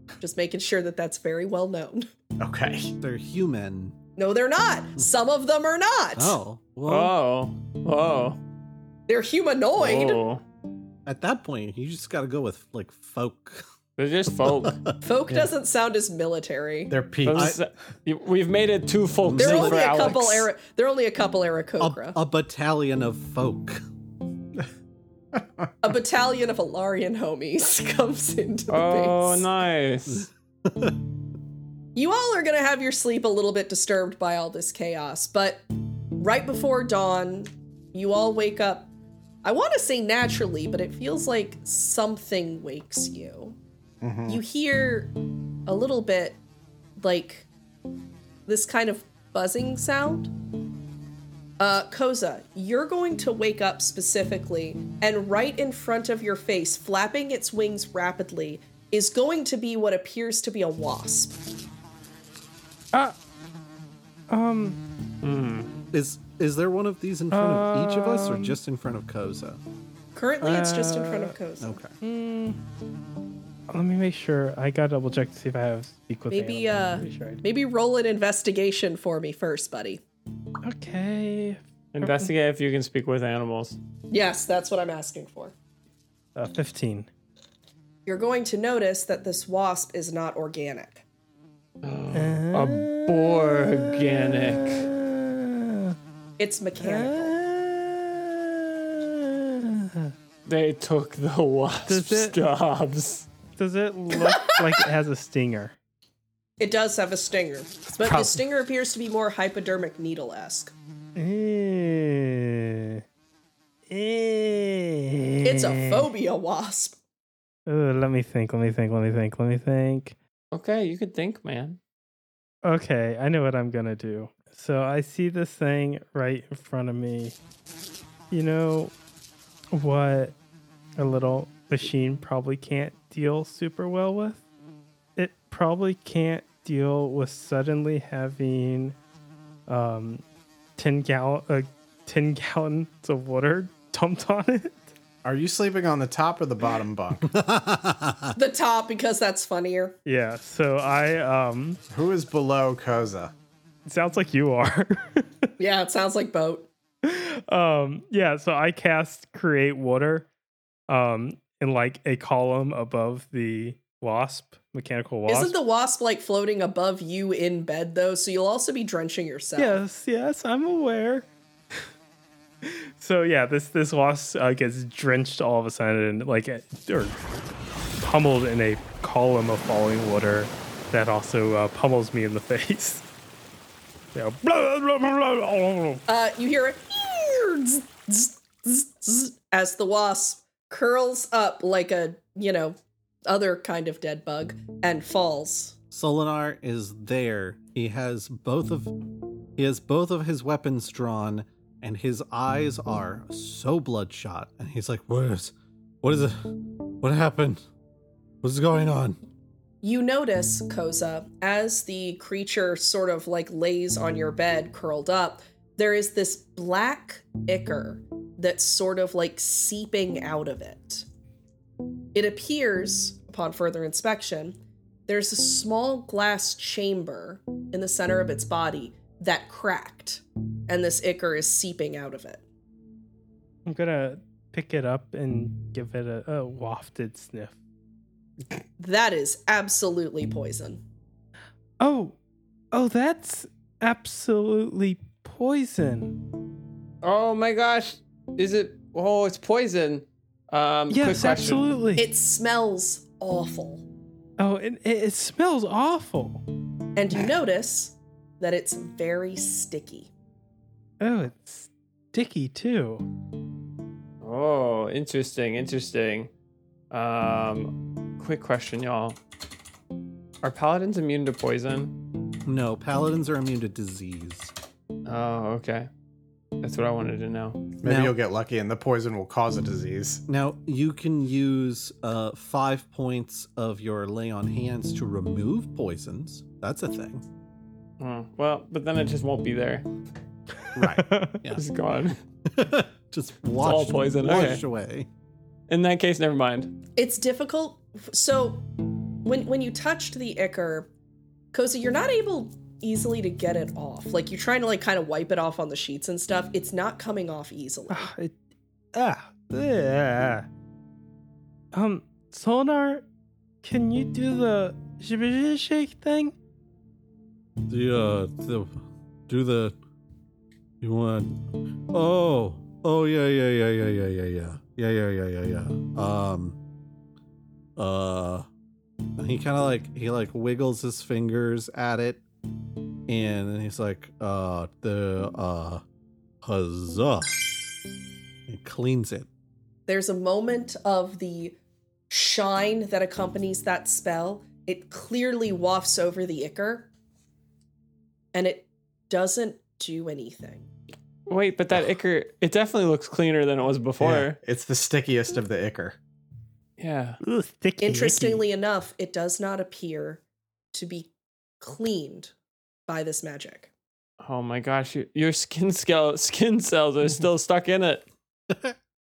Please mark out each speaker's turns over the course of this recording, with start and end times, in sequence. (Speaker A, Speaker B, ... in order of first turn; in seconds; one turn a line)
Speaker A: 0.2-2.1
Speaker B: 2.4-2.9
Speaker C: 3.0-4.0
Speaker A: 4.2-6.4
Speaker C: 6.2-7.1
Speaker D: 6.9-8.4
Speaker A: 9.1-10.2
Speaker D: 9.8-10.4
Speaker C: 11.1-13.7
Speaker D: 14.0-14.8
Speaker C: 14.4-14.8
Speaker A: 15.0-16.9
Speaker B: 16.9-17.6
Speaker D: 17.2-20.5
Speaker C: 17.3-17.6
Speaker C: 19.2-20.2
Speaker A: 19.4-22.2
Speaker C: 21.8-23.8
Speaker A: 25.8-29.4
Speaker D: 28.7-30.3
Speaker C: 30.1-30.9
Speaker A: 31.9-35.6
Speaker A: 36.2-38.9
Speaker A: 39.4-43.6
Speaker B: 44.0-44.4
Speaker A: 44.3-45.1
Speaker A: 45.6-46.4
Speaker A: 47.0-47.5
Speaker A: 48.5-50.3
Speaker A: 51.6-61.4
Speaker E: 64.3-64.8
Speaker D: 65.2-65.7
Speaker C: 65.9-69.6
Speaker E: 67.3-68.5
Speaker A: 70.1-71.7
Speaker E: 70.4-71.3
Speaker C: 71.6-71.9
Speaker E: 72.0-72.6
Speaker E: 73.7-77.4
Speaker A: 76.3-80.0
Speaker E: 80.6-82.3
Speaker D: 81.9-83.8
Speaker A: 84.1-85.5
Speaker E: 86.3-87.1
Speaker A: 88.0-91.0
Speaker D: 91.8-94.8
Speaker E: 92.1-96.0
Speaker A: 96.4-97.3
Speaker E: 96.8-100.1
Speaker D: 100.5-103.3
Speaker E: 101.9-102.4
Speaker E: 103.5-105.7
Speaker A: 104.2-104.6
Speaker A: 106.6-110.7
Speaker E: 111.2-113.0
Speaker E: 113.9-116.1
Speaker A: 115.4-117.0
Speaker E: 117.7-120.1
Speaker D: 120.5-121.8
Speaker E: 122.6-127.3
Speaker E: 128.3-128.9
Speaker E: 129.7-130.3
Speaker E: 131.0-134.4
Speaker E: 135.2-138.9
Speaker E: 139.7-140.2
Speaker E: 140.8-144.9
Speaker B: 145.2-147.3
Speaker C: 147.2-148.3
Speaker A: 148.3-149.9
Speaker E: 150.1-151.8
Speaker B: 151.9-153.3
Speaker E: 153.8-155.5
Speaker A: 155.6-156.7
Speaker E: 157.0-160.3
Speaker E: 160.9-165.6
Speaker A: 165.3-169.8
Speaker E: 169.6-171.8
Speaker E: 172.6-177.2
Speaker E: 178.0-183.0
Speaker E: 184.1-186.0
Speaker A: 186.1-192.8
Speaker A: 193.3-195.8
Speaker C: 195.9-198.9
Speaker C: 199.6-206.4
Speaker C: 207.0-207.6
Speaker C: 208.4-209.2
Speaker A: 209.8-221.0
Speaker A: 222.1-232.4
Speaker E: 233.7-237.5
Speaker A: 238.8-240.8
Speaker E: 241.8-242.1
Speaker E: 242.7-246.2
Speaker D: 247.0-251.6
Speaker E: 250.9-252.1
Speaker A: 251.9-253.8
Speaker E: 254.4-256.4
Speaker A: 256.9-260.1
Speaker E: 261.0-263.0
Speaker D: 264.2-266.3
Speaker D: 266.9-269.2
Speaker D: 270.4-272.0
Speaker C: 272.4-274.5
Speaker D: 275.1-275.9
Speaker D: 276.6-277.6
Speaker B: 277.8-280.2
Speaker C: 277.8-278.1
Speaker C: 280.3-287.2
Speaker D: 288.0-289.8
Speaker C: 290.7-291.6
Speaker E: 290.8-291.4
Speaker D: 291.5-292.2
Speaker C: 292.4-295.1
Speaker D: 293.6-294.6
Speaker D: 295.7-296.7
Speaker A: 296.9-298.6
Speaker A: 299.2-300.9
Speaker A: 301.5-308.1
Speaker E: 307.9-308.3
Speaker E: 308.9-310.5
Speaker E: 311.7-313.0
Speaker E: 313.6-316.3
Speaker C: 317.7-319.7
Speaker C: 320.8-326.6
Speaker C: 327.8-328.5
Speaker C: 329.2-332.2
Speaker C: 333.1-335.8
Speaker C: 336.4-337.5
Speaker C: 338.5-339.3
Speaker A: 339.9-341.6
Speaker A: 342.1-346.9
Speaker A: 348.3-350.7
Speaker D: 351.3-354.4
Speaker B: 354.0-356.0
Speaker D: 356.8-357.2
Speaker E: 357.2-358.4
Speaker A: 357.8-360.2
Speaker A: 360.7-362.3
Speaker A: 362.9-363.7
Speaker D: 364.2-368.0